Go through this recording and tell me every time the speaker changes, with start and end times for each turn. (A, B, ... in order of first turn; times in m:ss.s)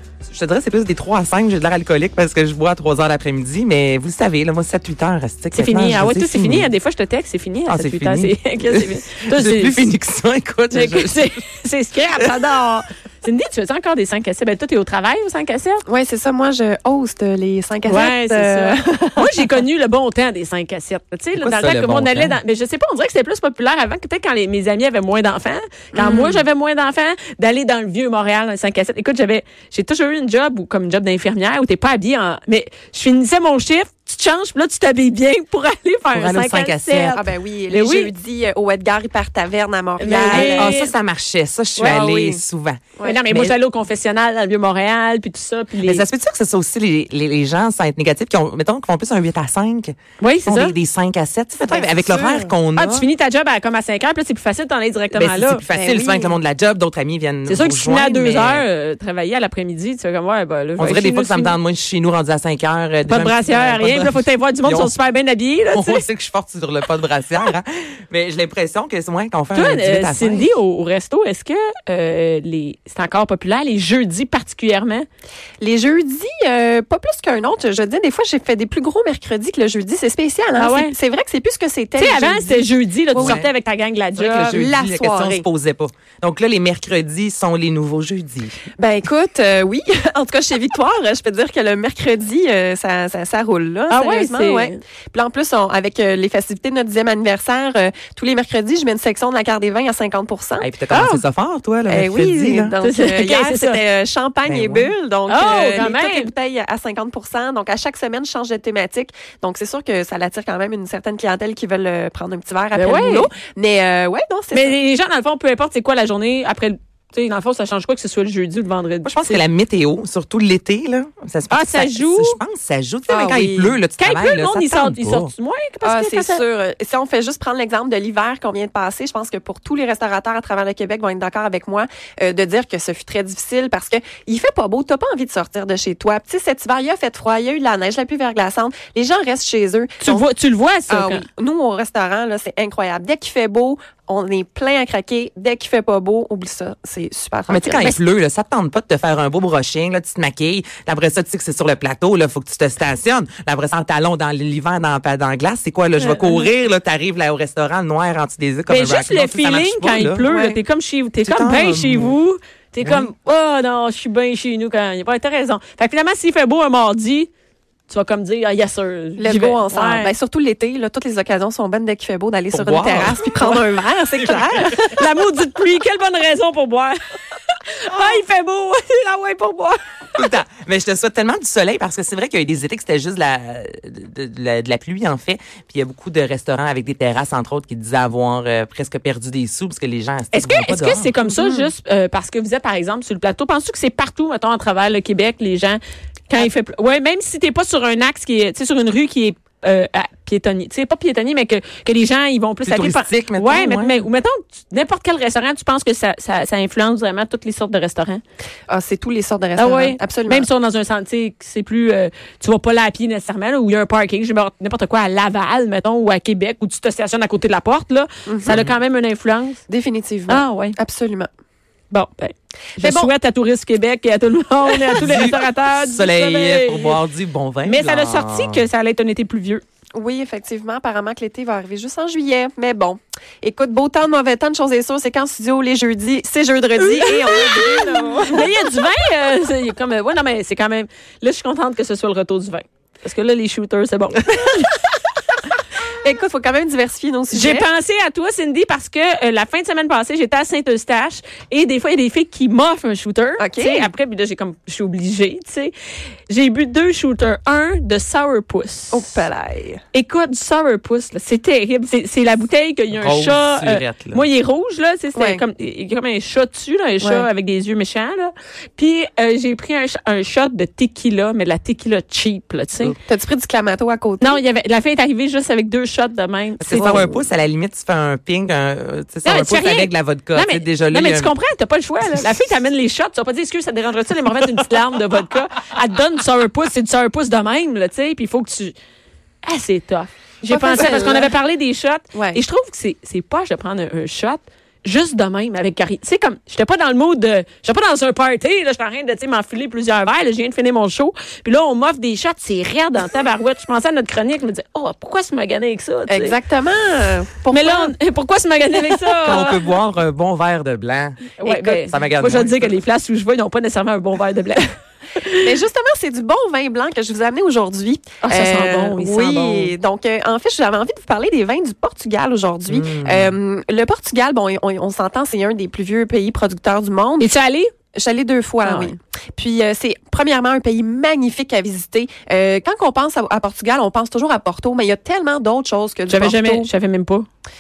0:00.3-0:06.7 A
0:05.5-0:09.9 B
0:07.7-0:11.3 A
0:10.7-0:15.8 B
0:15.9-0:19.6 C
0:17.9-0:38.1 B
0:21.4-0:22.4 A
0:26.0-0:26.4 C
0:36.1-0:37.2 A
0:37.1-0:40.8 C
0:40.0-0:40.9 B
0:40.0-0:43.6 A
0:41.8-0:42.4 C
0:43.0-0:43.2 C
0:43.0-0:46.0 B
0:45.8-0:53.0 A
0:50.2-0:50.7 B
0:51.7-0:52.5 C
0:52.8-0:55.6 B
0:55.1-0:58.6 A
0:55.7-0:56.4 C
0:57.5-1:01.6 B
1:00.8-1:04.9 A
1:03.1-1:06.0 B
1:05.7-1:10.5 A
1:09.5-1:15.1 B
1:15.6-1:23.4 C
1:20.6-1:20.9 B
1:22.0-1:24.6 B
1:23.1-1:23.5 A
1:24.2-1:28.6 A
1:24.5-1:25.4 C
1:28.8-1:40.7 C
1:33.9-1:34.8 B
1:40.6-1:42.8 A
1:40.9-1:41.2 B
1:41.9-1:54.8 C
1:42.8-1:43.8 B
1:44.5-1:44.9 A
1:45.3-1:46.3 B
1:52.7-1:53.3 B
1:54.5-1:59.4 B
1:59.0-2:05.3 A
2:01.5-2:02.4 B
2:03.1-2:03.8 C
2:04.0-2:06.4 B
2:05.8-2:20.3 C
2:20.0-2:21.2 B
2:20.9-2:27.9 C
2:27.5-2:40.3 A
2:36.0-2:36.4 B
2:38.7-2:47.3 B
2:40.2-2:40.6 C
2:41.3-2:42.2 A
2:42.8-2:43.1 A
2:47.9-2:50.1 B
2:49.2-2:55.0 C
2:52.5-2:54.5 A
2:54.7-2:59.8 B
3:00.2-3:11.1 A
3:10.3-3:28.2 B
3:11.2-3:11.7 C
3:22.7-3:24.0 A
3:28.7-3:30.5 C
3:29.6-3:39.6 B
3:38.3-3:38.6 C
3:38.5-3:38.7 A
3:39.7-3:41.3 C
3:40.3-3:40.8 B
3:41.9-3:47.0 B
3:42.8-3:43.1 C
3:44.9-3:48.6 A
3:47.6-3:49.6 B
3:50.0-3:58.6 C
3:57.0-4:04.7 B
4:06.0-4:07.7 C
4:07.3-4:15.7 B
4:13.4-4:13.9 C
4:16.3-4:19.0 B
4:18.9-4:19.8 C
4:19.9-4:33.0 B
4:22.9-4:24.2 A
4:25.2-4:25.4 C
4:27.0-4:27.3 C
4:33.1-4:34.4 C
4:34.2-4:37.2 B
4:36.6-4:41.3 A
4:39.2-4:48.8 B
4:49.4-5:06.4 B
4:50.5-4:51.3 C
4:52.1-4:52.4 C
5:06.1-5:07.9 C
5:07.5-5:09.6 B
5:08.8-5:09.5 C
5:09.2-5:12.7 A
5:11.4-5:15.5 B
5:11.4-5:11.9 C
5:15.4-5:27.3 C
5:18.2-5:19.7 B
5:22.7-5:23.3 A
5:27.2-5:27.7 B
5:28.0-5:36.7 C
5:28.6-5:28.9 B
5:36.1-5:37.3 B